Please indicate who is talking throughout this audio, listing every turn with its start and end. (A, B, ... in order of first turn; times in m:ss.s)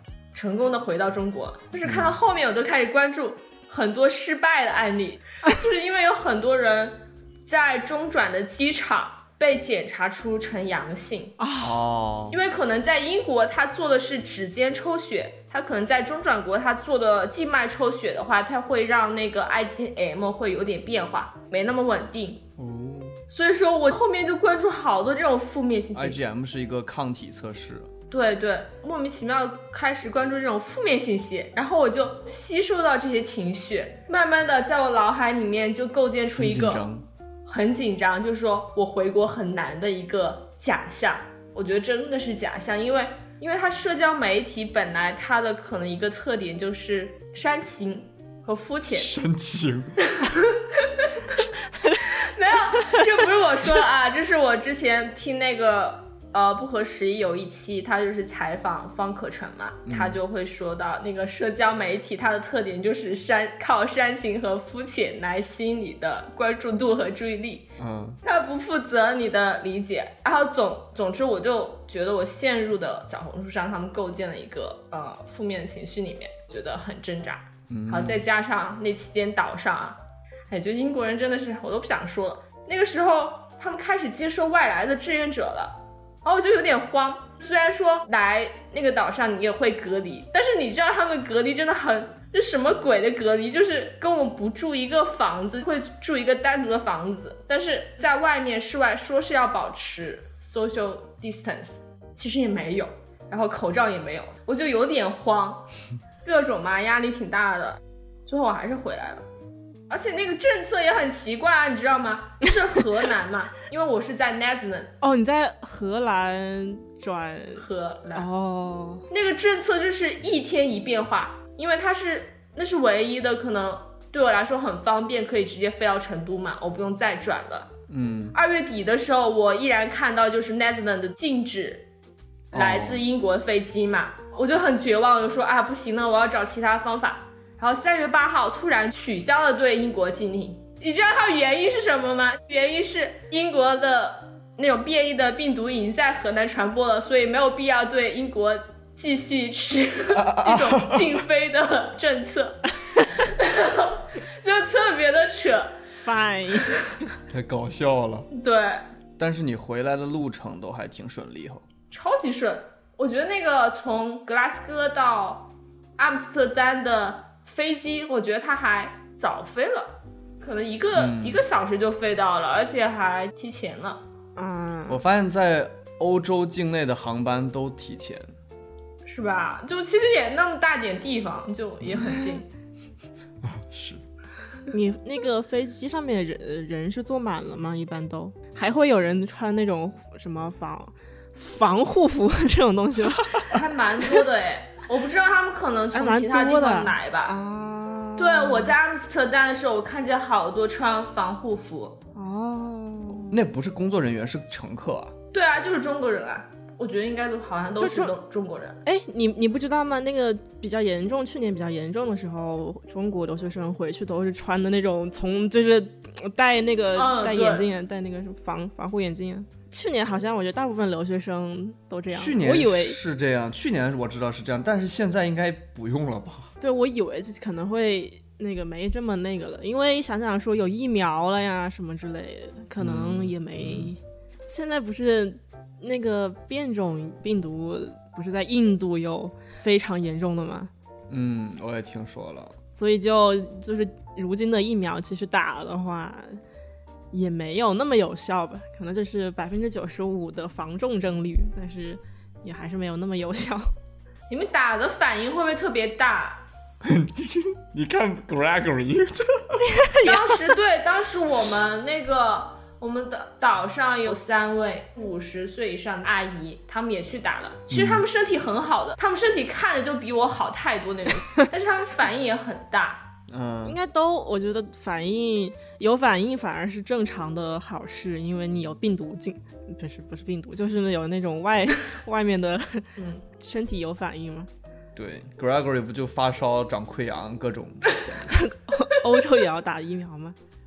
0:00.3-0:11.4 A
0:01.8-0:02.2 B
0:11.4-0:11.7 C
0:11.6-0:12.4 B
0:12.3-0:22.4 A
0:22.6-0:23.2 B
0:23.3-0:26.2 A
0:25.9-0:27.9 B
0:28.1-0:36.8 A
0:36.4-0:37.0 B
0:37.4-0:49.1 A
0:48.9-0:50.0 B
0:50.1-0:51.4 A
0:52.0-1:07.6 A
0:59.8-1:00.2 B
1:07.8-1:08.2 B
1:08.2-1:20.0 A
1:17.7-1:18.2 B
1:20.5-1:45.7 A
1:46.2-1:49.2 A
1:49.9-1:54.9 A
1:55.0-1:59.0 C
1:57.6-1:58.3 A
1:59.1-2:07.7 A
2:07.9-2:08.4 B
2:08.3-2:11.8 A
2:12.5-2:13.0 B
2:12.5-2:35.7 A
2:30.1-2:31.2 B
2:36.0-2:37.1 C
2:37.3-2:38.3 B
2:38.3-2:38.8 A
2:39.2-2:41.6 B
2:41.9-2:54.0 A
2:50.9-2:51.4 B
2:54.4-2:55.0 C
2:54.9-2:58.3 B
2:59.0-3:02.5 A
3:03.4-3:04.0 B
3:04.7-3:13.5 C
3:13.5-3:17.3 A
3:15.9-3:18.7 C
3:18.2-3:22.0 A
3:22.1-3:23.4 C
3:23.3-3:25.1 B
3:25.3-3:28.8 A
3:27.8-3:28.1 C
3:28.8-3:43.0 C
3:36.9-3:37.7 A
3:42.1-3:46.5 B
3:46.6-4:00.7 C
3:52.8-3:53.9 B
4:01.1-4:02.6 B
4:02.7-4:06.4 C
4:07.1-4:13.7 C
4:14.3-4:16.4 A
4:16.8-4:19.6 B
4:19.6-4:20.4 C
4:20.0-4:33.0 A
4:27.7-4:28.0 B
4:33.3-4:33.8 B
4:33.6-4:44.5 C
4:43.0-4:43.2 A
4:44.9-4:48.3 B
4:48.2-4:50.4 C